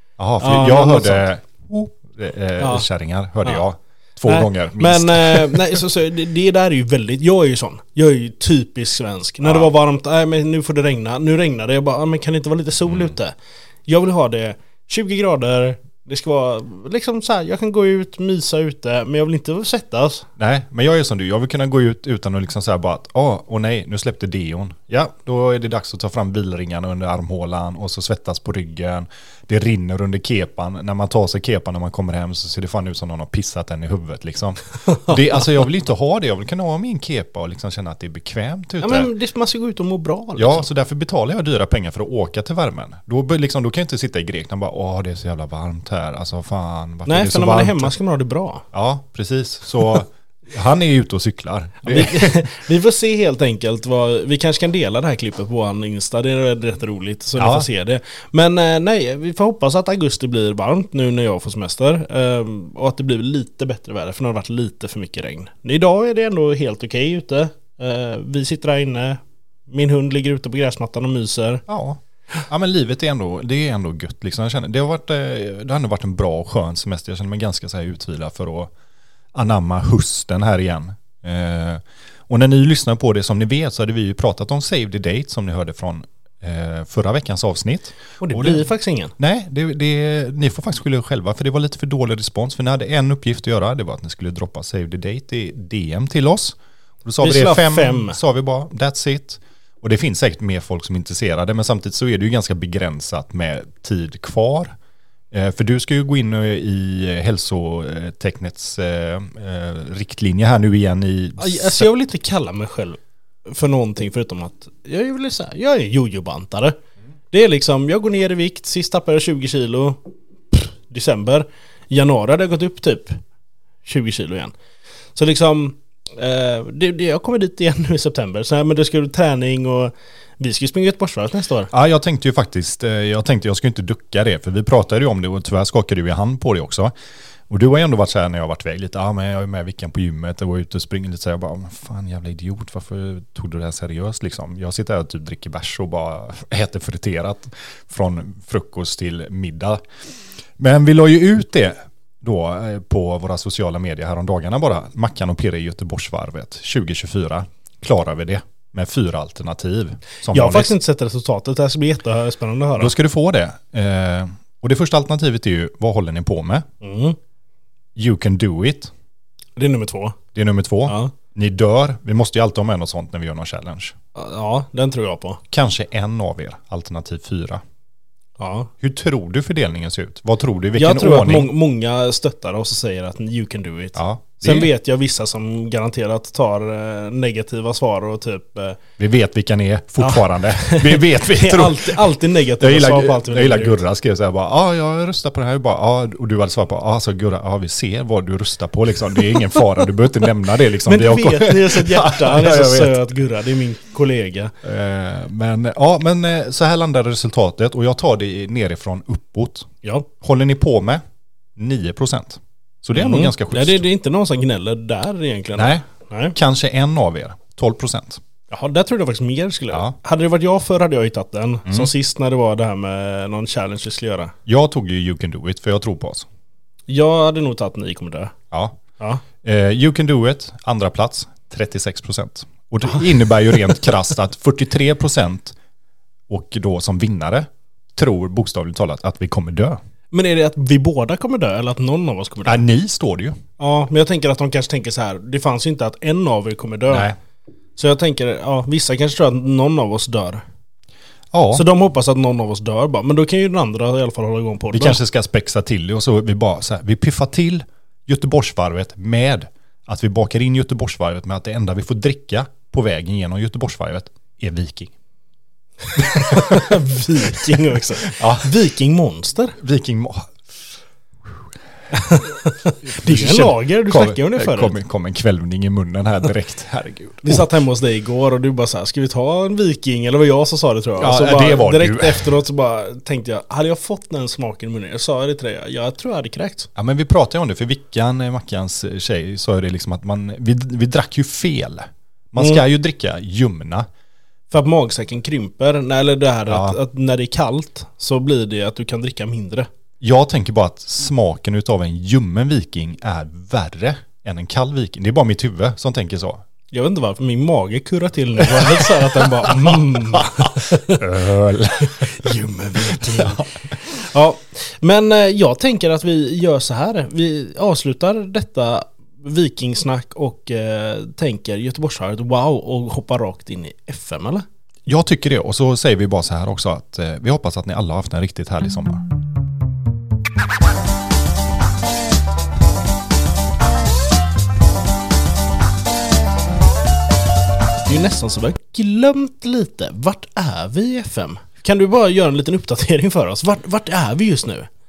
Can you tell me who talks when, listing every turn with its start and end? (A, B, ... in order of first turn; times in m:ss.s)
0:00.2-0:05.8 A
0:00.4-0:01.3 B
0:02.6-0:02.8 B
0:04.2-0:20.2 B
0:09.4-0:09.7 A
0:12.9-0:13.1 A
0:20.4-0:39.1 A
0:38.8-0:40.7 B
0:40.4-0:47.9 A
0:47.0-0:48.6 B
0:48.7-0:52.5 A
0:51.8-1:11.6 B
0:57.4-0:57.6 A
1:11.7-1:18.7 A
1:19.3-1:44.7 A
1:28.2-1:29.1 B
1:37.2-1:38.2 B
1:45.3-1:51.9 A
1:51.4-1:56.8 B
1:57.3-2:03.2 B
2:03.8-2:04.5 B
2:05.1-2:11.7 B
2:11.7-2:16.9 A
2:17.5-2:29.8 A
2:30.6-2:40.7 A
2:40.3-2:42.9 B
2:42.8-2:46.7 A
2:46.8-2:47.2 B
2:48.0-2:48.9 A
2:49.6-2:50.2 B
2:50.3-2:53.9 A
2:50.8-2:51.1 B
2:54.1-2:55.4 B
2:55.5-2:57.6 A
2:58.4-2:58.7 B
2:58.8-3:01.5 A
3:00.8-3:08.8 B
3:03.9-3:04.7 A
3:09.0-3:23.0 A
3:10.0-3:13.8 B
3:20.8-3:24.5 B
3:24.6-3:31.0 A
3:31.6-3:33.8 A
3:32.9-3:36.4 B
3:35.5-3:38.2 A
3:38.5-3:44.3 B
3:39.7-3:40.0 A
3:41.6-3:41.9 A
3:44.4-3:46.2 A
3:46.9-3:48.3 B
3:48.5-3:48.8 A
3:49.4-3:55.6 A
3:56.3-3:59.8 A
4:00.1-4:02.6 B
4:02.4-4:03.4 A
4:03.6-4:07.1 B
4:06.9-4:07.2 A
4:07.8-4:10.4 B
4:11.3-4:11.6 A
4:11.5-4:15.0 B
4:14.7-4:24.9 A
4:26.0-4:28.5 A
4:26.1-4:29.6 B
4:29.6-4:30.3 A
4:31.9-4:34.7 B
4:32.8-4:37.4 A
4:37.2-4:46.7 B
4:41.0-4:42.3 A
4:46.7-4:53.9 A
4:52.4-4:52.6 B
4:54.5-4:59.7 B
4:56.5-4:56.8 A
5:00.0-5:06.4 A
5:06.7-5:11.0 B
5:08.6-5:12.3 A
5:11.9-5:24.4 B
5:12.9-5:13.6 A
5:24.9-5:29.0 A
5:37.8-5:44.7 B